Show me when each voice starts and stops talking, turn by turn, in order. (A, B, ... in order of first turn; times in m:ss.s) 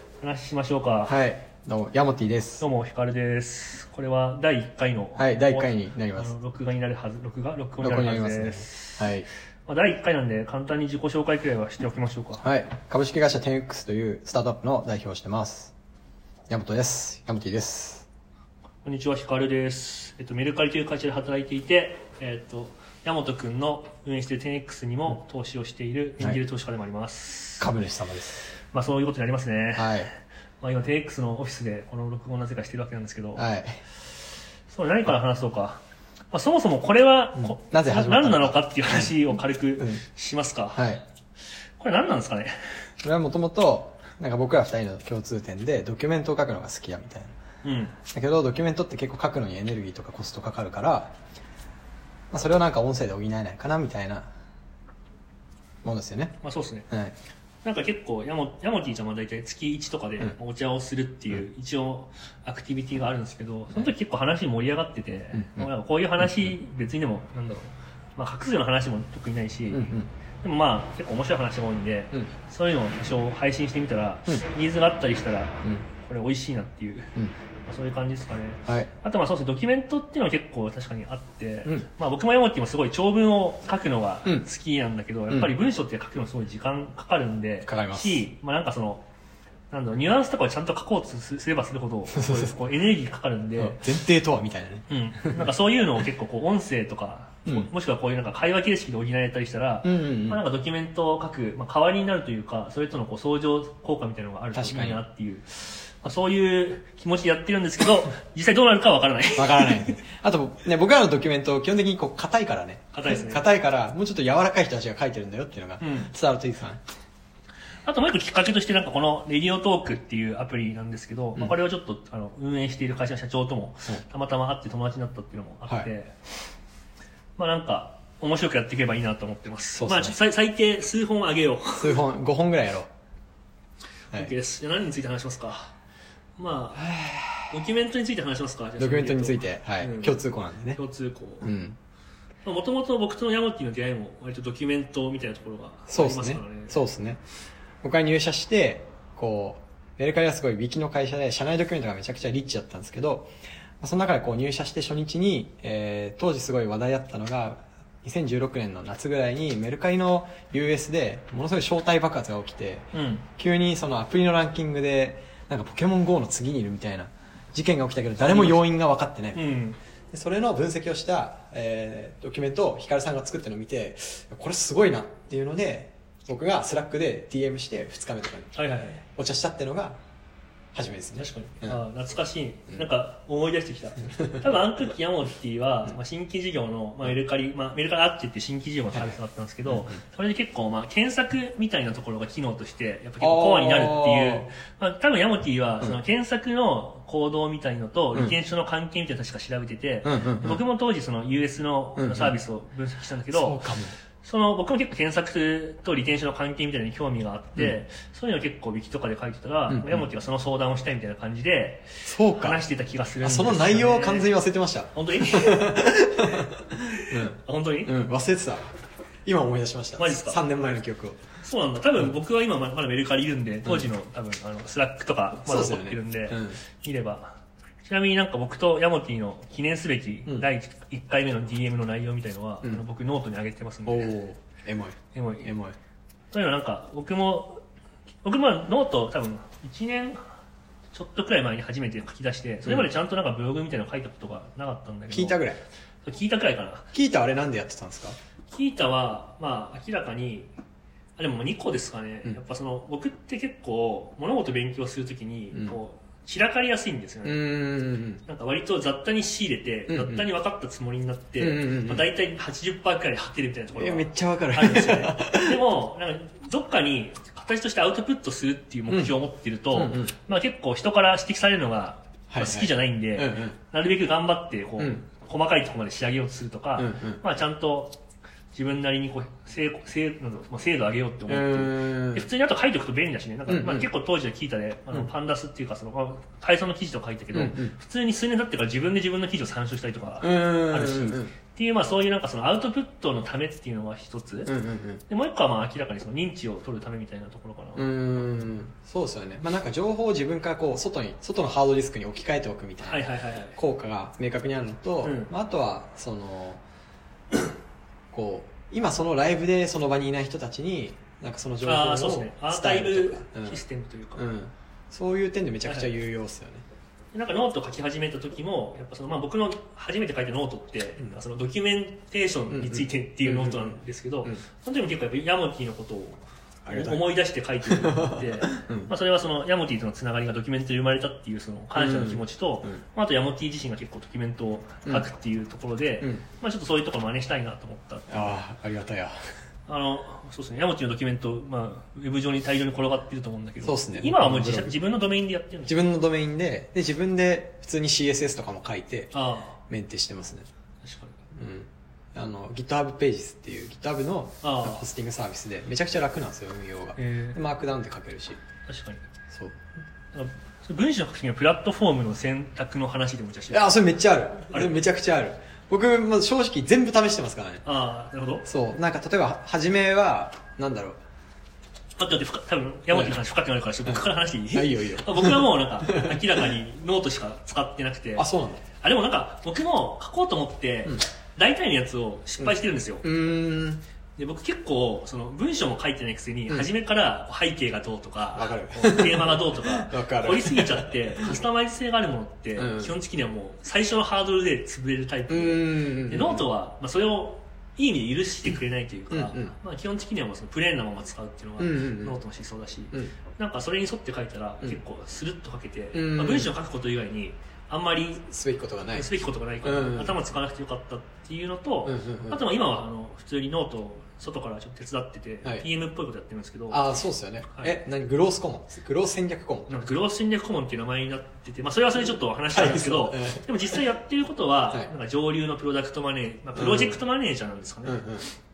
0:00.2-0:01.1 A
0:01.0-0:02.6 B
0:02.6-0:09.1 A
0:05.2-0:06.3 B
0:07.8-0:09.3 B
0:09.7-0:12.4 A
0:12.4-0:15.7 B
0:16.5-0:18.0 B
0:18.8-0:27.7 A
0:27.6-0:28.4 B
0:28.5-0:33.4 A
0:29.7-0:30.1 B
0:33.3-0:33.8 B
0:34.7-0:41.0 A
0:37.4-0:39.1 B
0:39.8-0:40.0 B
0:40.7-0:41.0 B
0:41.8-0:42.7 A
0:43.0-0:47.3 B
0:47.6-0:48.0 A
0:48.1-0:51.1 B
0:52.3-0:54.3 B
0:55.8-0:56.4 B
0:56.4-0:56.9 A
0:56.9-0:57.1 B
0:57.6-1:17.1 A
1:05.3-1:06.5 B
1:09.7-1:10.1 B
1:17.6-1:29.0 A
1:27.6-1:28.3 B
1:29.7-1:33.8 A
1:32.1-1:32.6 B
1:33.6-1:35.5 B
1:34.9-1:49.9 A
1:39.8-1:40.4 B
1:44.5-1:45.0 B
1:49.3-1:56.8 B
1:52.9-1:53.5 A
1:55.8-1:56.1 A
1:57.8-2:06.2 A
2:07.4-2:12.0 A
2:09.7-2:10.2 B
2:11.8-2:12.9 B
2:14.1-2:15.7 A
2:16.4-2:16.9 A
2:16.8-2:17.5 B
2:17.5-2:20.2 A
2:18.8-2:20.8 B
2:20.7-2:21.5 A
2:21.4-2:21.8 B
2:22.4-2:26.8 A
2:25.9-2:27.2 B
2:27.8-2:49.4 B
2:42.9-2:43.2 A
2:48.2-2:48.6 A
2:49.3-2:49.8 A
2:50.1-2:58.5 B
2:58.5-2:59.0 A
2:59.1-3:00.0 B
3:00.7-3:01.8 B
3:01.2-3:23.6 A
3:04.0-3:04.6 B
3:09.7-3:10.0 B
3:13.2-3:14.5 B
3:20.0-3:20.6 B
3:22.0-3:22.4 B
3:23.3-3:24.0 B
3:24.2-3:34.3 A
3:29.7-3:30.1 B
3:32.0-3:32.6 B
3:33.2-3:38.7 B
3:34.9-3:35.7 A
3:37.1-3:38.0 A
3:39.2-3:41.2 B
3:40.0-3:40.4 A
3:41.4-3:54.2 A
3:45.4-3:46.6 B
3:53.8-3:55.8 B
3:55.1-3:55.5 A
3:56.3-3:57.6 A
3:58.2-4:00.3 A
4:00.9-4:05.4 A
4:05.1-4:05.6 B
4:06.0-4:06.9 A
4:06.9-4:08.2 B
4:08.5-4:10.5 A
4:11.2-4:17.4 A
4:15.5-4:15.8 B
4:17.2-4:18.2 B
4:18.2-4:38.0 A
4:19.9-4:20.3 B
4:21.4-4:22.0 B
4:23.7-4:25.6 B
4:28.9-4:29.2 B
4:29.7-4:30.1 B
4:32.3-4:33.6 B
4:34.8-4:35.0 B
4:36.8-4:37.2 B
4:38.5-4:54.5 A
4:41.3-4:42.3 B
4:43.5-4:43.9 B
4:47.3-4:47.7 B
4:50.2-4:51.3 B
4:54.4-4:55.0 B
4:55.1-4:57.9 A
4:57.8-5:06.6 B
5:02.8-5:03.6 A
5:05.0-5:05.3 A
5:08.1-5:13.6 B
5:11.6-5:14.3 A
5:14.2-5:16.6 B
5:15.6-5:15.9 A
5:17.1-5:38.4 A
5:22.5-5:24.4 B
5:26.6-5:27.1 B
5:27.6-5:28.9 B
5:31.7-5:32.8 B
5:38.1-5:39.2 B
5:39.7-5:45.8 A
5:43.6-5:44.8 B
5:45.6-5:49.1 B
5:49.1-5:49.6 A
5:49.7-5:50.4 B
5:50.8-5:51.2 A
5:51.4-5:58.4 B
5:54.4-5:54.8 A
5:57.0-5:57.4 A
5:58.7-5:59.0 A
5:59.3-5:59.6 B
6:00.1-6:03.8 A
6:03.5-6:07.6 B
6:04.5-6:04.8 A
6:07.6-6:08.5 A
6:08.4-6:11.0 B
6:12.0-6:18.3 A
6:12.9-6:13.2 B
6:13.8-6:16.5 B
6:18.2-6:18.6 B
6:18.8-6:23.0 A
6:22.4-6:23.8 B
6:24.2-6:48.2 A
6:28.3-6:31.4 B
6:32.5-6:32.9 B
6:35.3-6:36.5 B
6:39.1-6:39.5 B
6:41.6-6:42.2 B
6:45.9-6:46.5 B
6:48.3-6:49.1 B
6:48.9-6:56.9 A
6:49.6-6:50.3 B
6:51.8-6:52.4 B
6:56.7-6:59.8 B
6:57.5-6:57.8 A
6:59.7-7:08.2 A
7:02.5-7:03.8 B
7:06.5-7:07.0 B
7:07.8-7:08.3 B